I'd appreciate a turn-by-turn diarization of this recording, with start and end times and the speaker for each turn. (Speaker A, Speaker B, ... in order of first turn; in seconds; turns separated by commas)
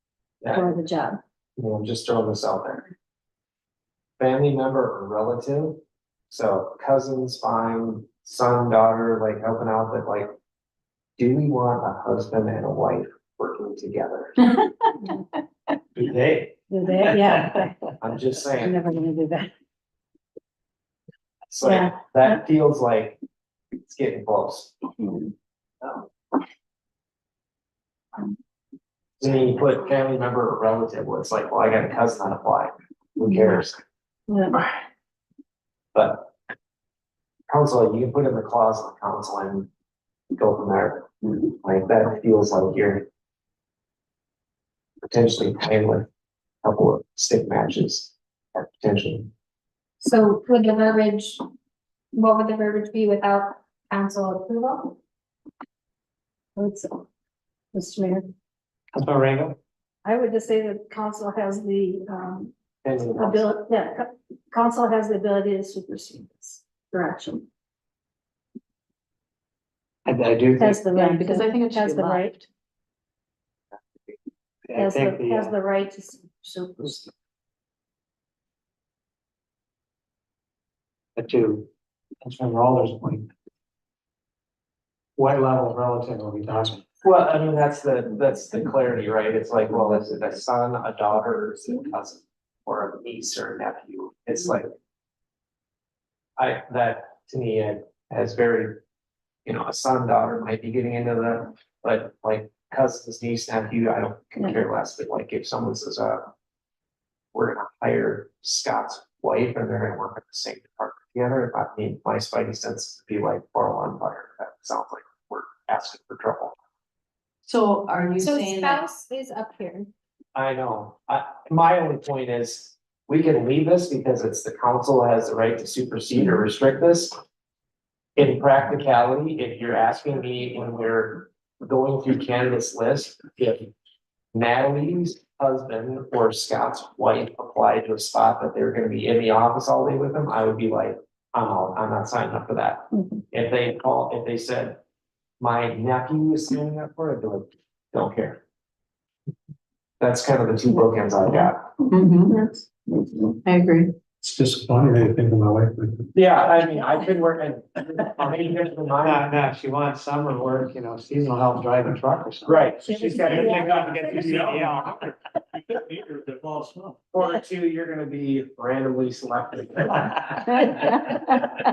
Speaker A: 0.5-1.2, Speaker B: 1.6-2.9, Speaker B: 4.2-10.3, Speaker B: 11.2-14.4, Speaker C: 15.9-16.6, Speaker A: 16.7-17.7, Speaker B: 18.0-18.8, Speaker A: 18.6-19.5, Speaker B: 21.5-23.2, Speaker A: 21.6-22.4, Speaker B: 23.8-24.8, Speaker A: 25.0-25.3, Speaker B: 29.2-33.8, Speaker A: 34.3-34.6, Speaker B: 35.9-36.3, Speaker B: 37.5-39.7, Speaker B: 40.3-41.1, Speaker B: 41.6-43.1, Speaker B: 45.0-46.1, Speaker B: 46.6-49.3, Speaker D: 50.0-51.4, Speaker D: 52.1-55.0, Speaker A: 56.5-57.0, Speaker A: 57.7-58.3, Speaker C: 58.9-59.6, Speaker A: 60.0-67.4, Speaker B: 62.8-63.5, Speaker C: 70.0-70.8, Speaker A: 70.6-72.4, Speaker E: 70.9-72.4, Speaker C: 74.7-75.5, Speaker A: 74.8-77.1, Speaker C: 81.2-81.7, Speaker C: 82.2-83.3, Speaker C: 85.2-86.8, Speaker B: 87.0-94.7, Speaker B: 96.4-98.8, Speaker B: 99.5-106.3, Speaker B: 107.3-116.5, Speaker E: 117.4-118.8, Speaker D: 118.2-119.9, Speaker B: 120.3-127.1, Speaker B: 128.2-133.7, Speaker B: 134.3-144.8, Speaker B: 145.4-148.4, Speaker B: 150.0-151.7, Speaker E: 151.2-152.4, Speaker E: 153.0-153.9, Speaker F: 154.2-156.1, Speaker B: 156.1-159.2, Speaker C: 159.0-165.2, Speaker B: 162.4-164.7, Speaker A: 162.8-164.4, Speaker F: 163.3-165.0, Speaker F: 165.7-167.0, Speaker B: 167.1-171.3